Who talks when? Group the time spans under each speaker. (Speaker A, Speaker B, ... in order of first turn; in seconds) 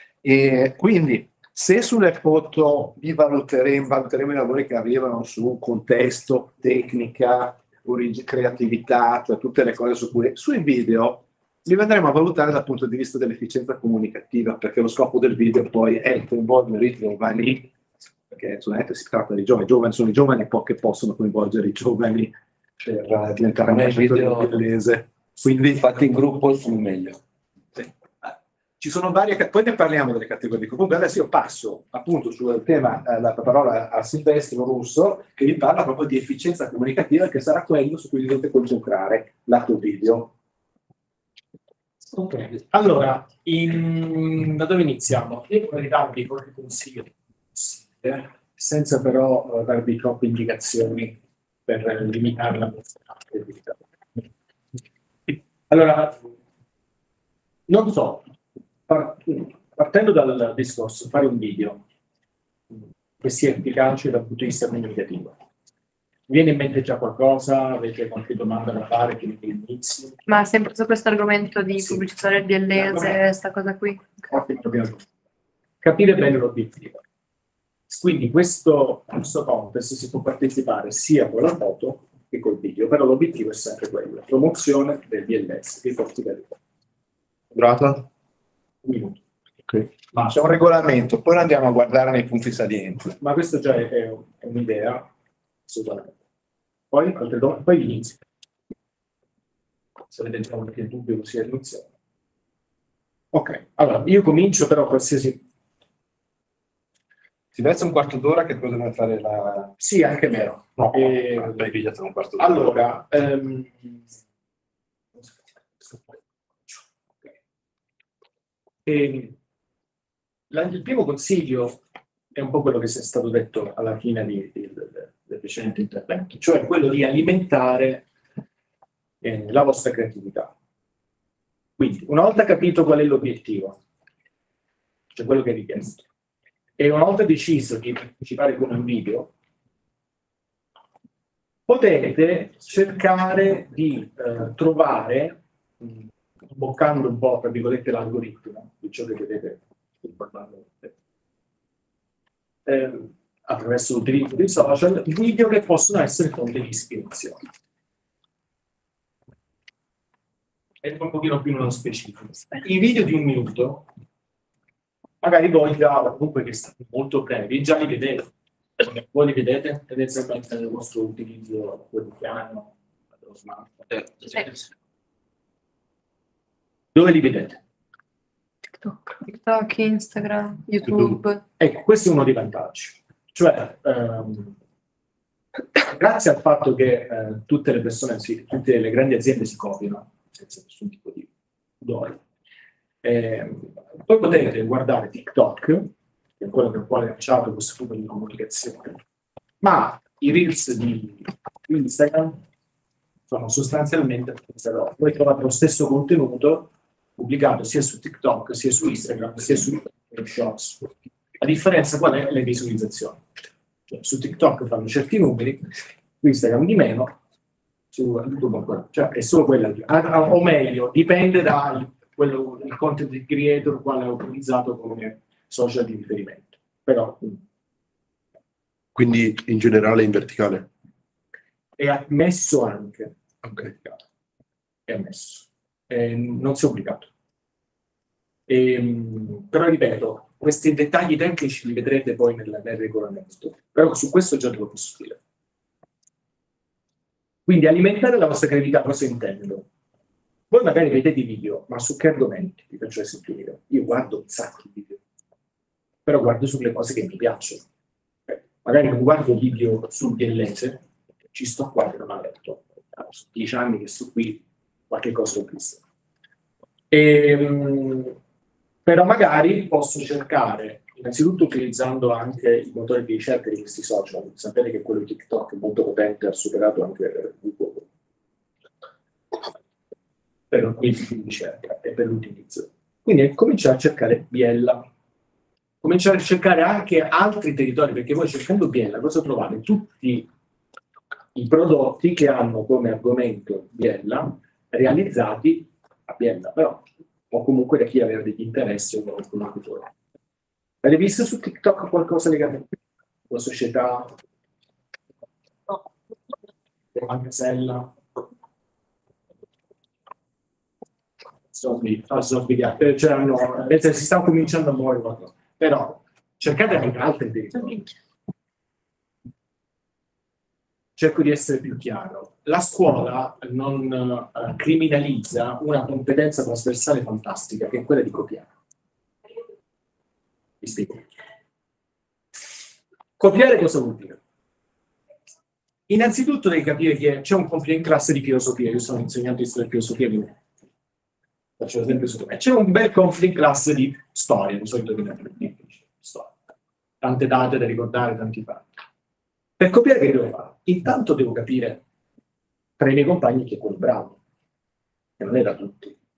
Speaker A: 0.2-17.7, 18.3-25.9, 27.8-40.3, 90.2-93.1, 107.5-109.7, 110.8-112.7
Speaker B: 23.7-24.6, 25.8-27.2
Speaker C: 42.1-53.8, 55.3-56.2, 57.7-58.3, 58.9-61.8, 63.2-65.3, 66.3-70.2, 72.7-73.2, 74.3-75.0, 75.8-77.0, 77.9-86.5, 88.8-89.2, 93.2-95.1, 95.7-96.1, 96.9-98.2, 100.1-101.8, 103.3-105.4, 109.8-111.7, 112.4-114.0, 118.8-119.3, 120.5-121.8, 122.3-128.0, 129.2-130.5, 131.8-133.8, 135.1-136.1, 136.8-139.3, 141.7-150.9, 152.7-157.4, 160.8-163.8, 165.2-174.7, 176.9-177.6, 181.6-184.6, 185.8-191.3, 191.8-192.2, 193.0-199.0, 199.6-202.4, 203.3-213.2, 213.9-217.2, 217.9-227.4, 231.8-234.0, 234.9-237.1, 238.5-245.2, 247.4-249.7, 250.5-255.0, 256.1-257.6, 258.3-265.8, 266.9-268.1, 268.8-277.9, 280.5-284.8, 285.8-290.3, 291.3-299.9, 300.8-302.7, 303.3-304.1, 306.9-308.2, 311.5-317.9, 321.0-328.5, 330.6-331.1, 333.2-334.2, 335.9-340.3, 341.6-346.4, 347.0-348.7, 349.6-351.8, 352.8-354.2, 355.2-355.9
Speaker D: 70.3-74.2, 178.8-181.4
Speaker E: 87.5-88.0, 228.9-230.7